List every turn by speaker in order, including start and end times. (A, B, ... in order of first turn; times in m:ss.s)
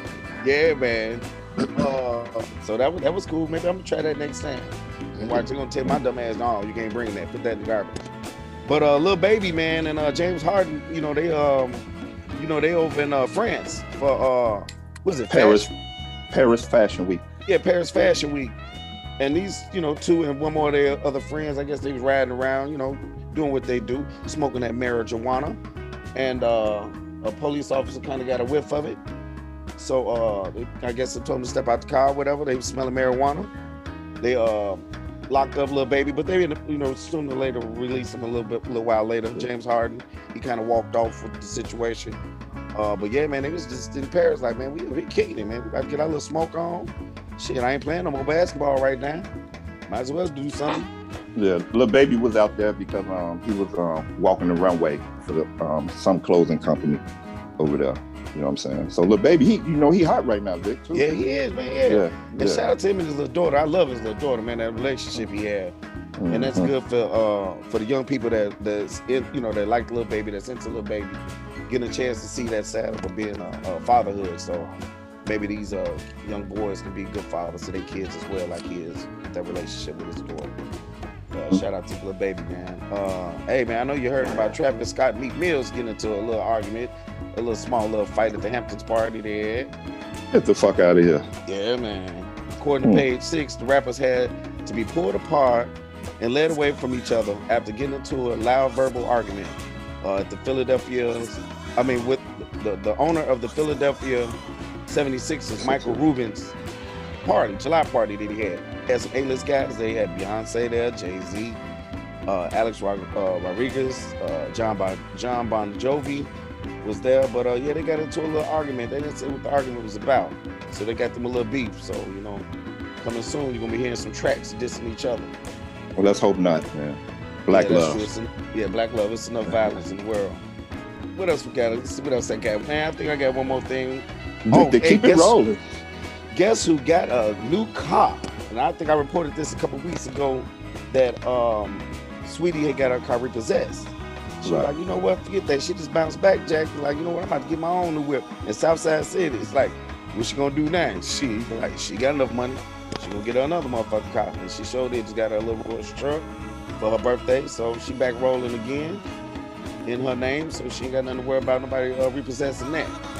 0:00.4-0:08.0 A
0:08.7-0:11.8 A
0:12.4-0:15.7 A
0:15.3-0:15.7 B
0:16.3-0:17.2 B
0:17.5-0:18.6 A
0:19.2-0:25.6 A
0:26.2-0:29.0 A
0:29.8-0:33.5 A
0:34.2-0:42.2 A
0:42.7-0:49.3 A
0:49.9-0:50.9 A
0:51.4-0:57.0 B
0:57.6-1:01.2 B
1:00.9-1:05.7 A
1:01.8-1:02.7 B
1:06.2-1:06.7 B
1:06.3-1:14.7 A
1:15.2-1:20.6 A
1:21.3-1:29.7 A
1:30.3-1:31.3 B
1:31.5-1:46.5 A
1:45.6-1:46.0 B
1:47.2-1:51.6 A
1:52.3-1:56.3 A
1:56.8-2:02.4 A
2:03.0-2:05.3 A
2:06.0-2:08.1 B
2:07.5-2:10.4 A
2:09.5-2:09.8 B
2:11.1-2:15.4 A
2:14.5-2:15.6 B
2:16.3-2:36.3 A
2:24.4-2:24.7 B
2:36.8-2:39.0 A
2:39.9-2:43.0 A